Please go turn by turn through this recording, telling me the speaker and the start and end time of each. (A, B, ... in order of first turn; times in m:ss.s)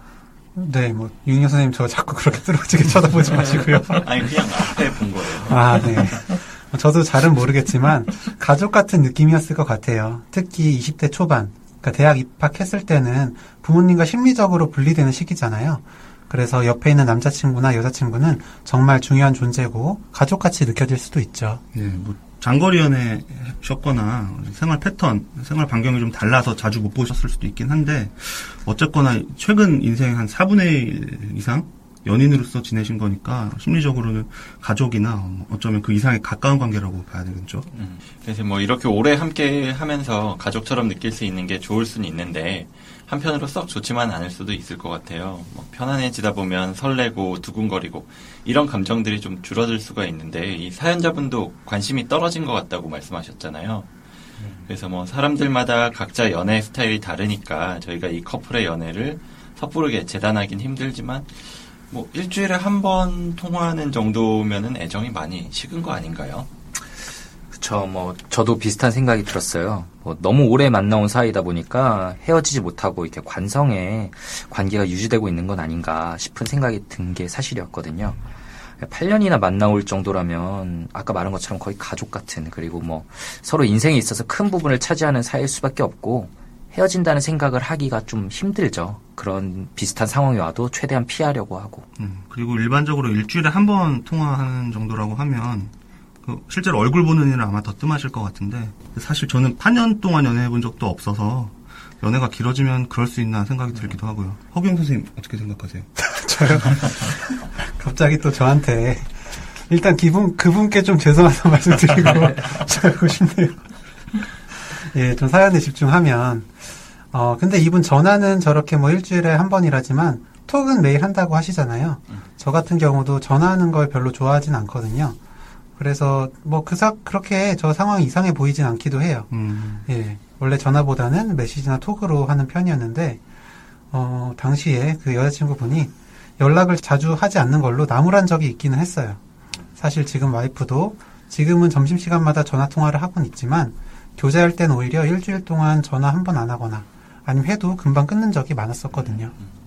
0:00.6-0:21.6 A
0:03.9-0:06.0 B
0:21.7-0:37.7 C
0:37.7-0:53.9 B
0:54.7-1:06.5 B
1:07.5-1:18.2 D
1:18.8-1:31.9 D
1:32.0-1:35.7 C
1:36.2-1:45.9 C
1:46.0-1:53.7 A
1:54.5-2:05.2 A
2:05.8-2:09.3 A
2:09.3-2:09.9 C
2:09.9-2:13.2 A
2:13.9-2:19.2 A
2:19.8-2:29.3 A